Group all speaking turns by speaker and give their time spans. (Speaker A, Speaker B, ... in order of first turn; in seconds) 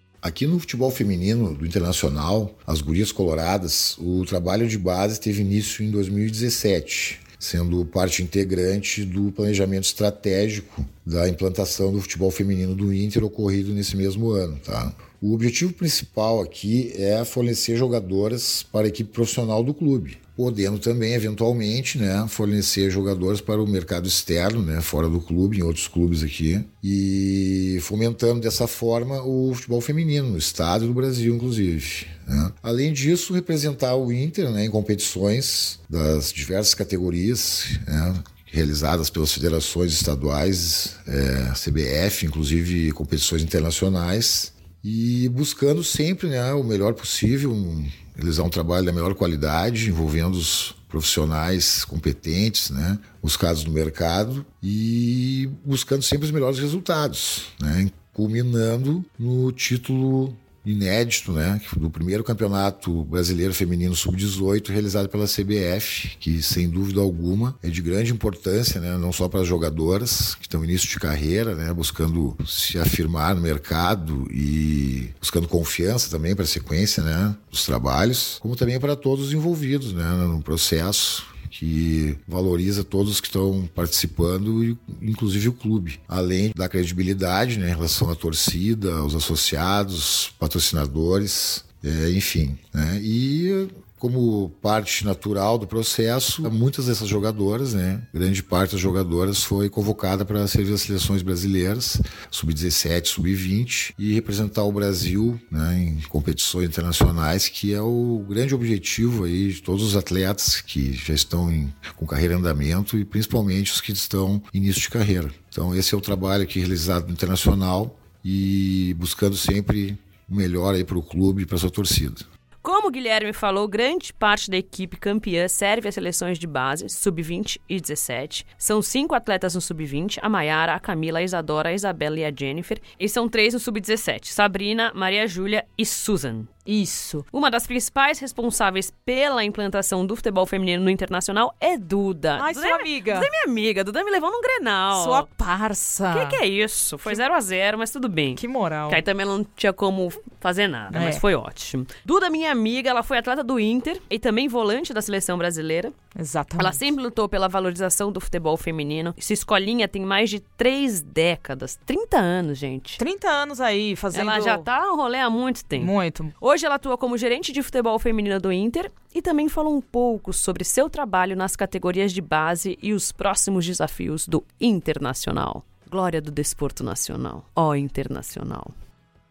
Speaker A: 0.2-122.2
Speaker B: 122.6-136.5, 137.3-145.2, 146.1-155.9, 156.6-163.0, 164.1-178.7
Speaker C: 136.7-137.2, 142.4-143.3, 144.9-146.4, 148.3-149.0, 150.9-151.2, 156.1-156.8, 163.0-164.7, 165.8-166.3